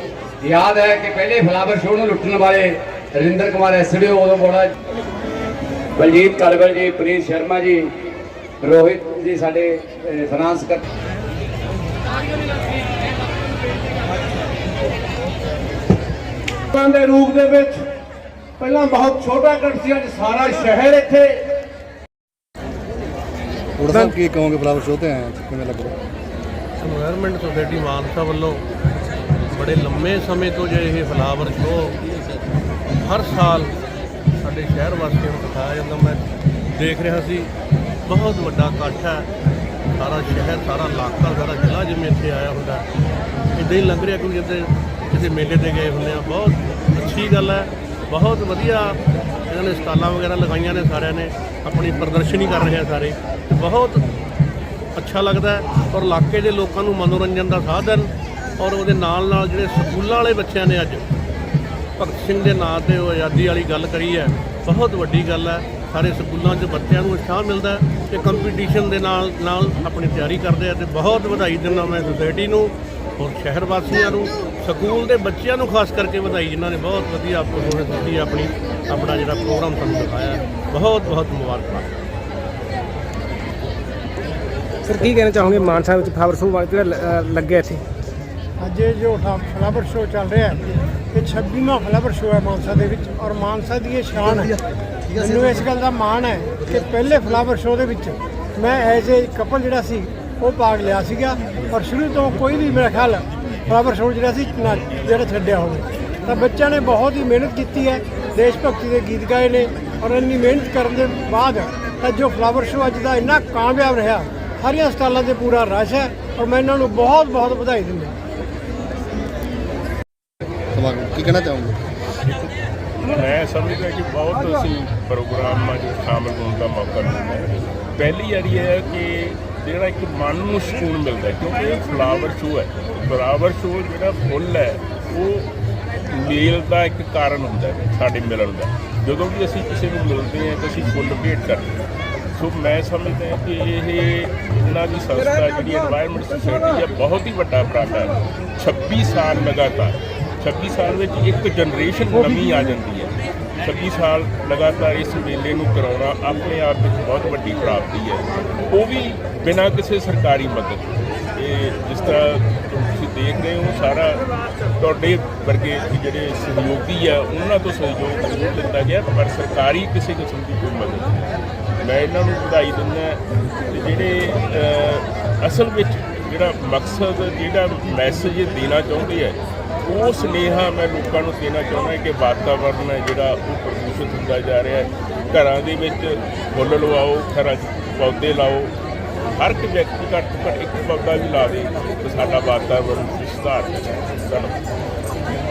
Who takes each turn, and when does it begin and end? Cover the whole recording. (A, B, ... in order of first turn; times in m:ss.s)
0:00.4-0:04.7 A
0:06.0-0:07.9 A
0:08.6-0:10.8 A
0:16.8-0:17.6 B
0:23.8-0:26.0 C
0:23.9-0:24.2 D
0:26.8-0:28.6 B
0:29.5-0:32.0 B
0:33.0-0:33.7 B
0:34.4-0:36.2 B
0:36.8-0:37.5 B
0:38.1-0:39.3 B
0:40.0-0:42.8 B
0:43.6-0:54.0 B
0:55.0-1:01.0 B
1:02.0-1:21.9 B
1:24.8-1:27.8 D
1:28.6-1:30.6 E
1:31.1-1:34.6 E
1:35.2-1:58.1 E
2:00.8-2:01.8 C
2:03.0-2:15.5 F
2:16.1-2:21.7 F
2:22.3-2:44.2 F
2:44.8-2:51.1 F
2:51.8-3:08.7 F
3:09.3-3:14.6 F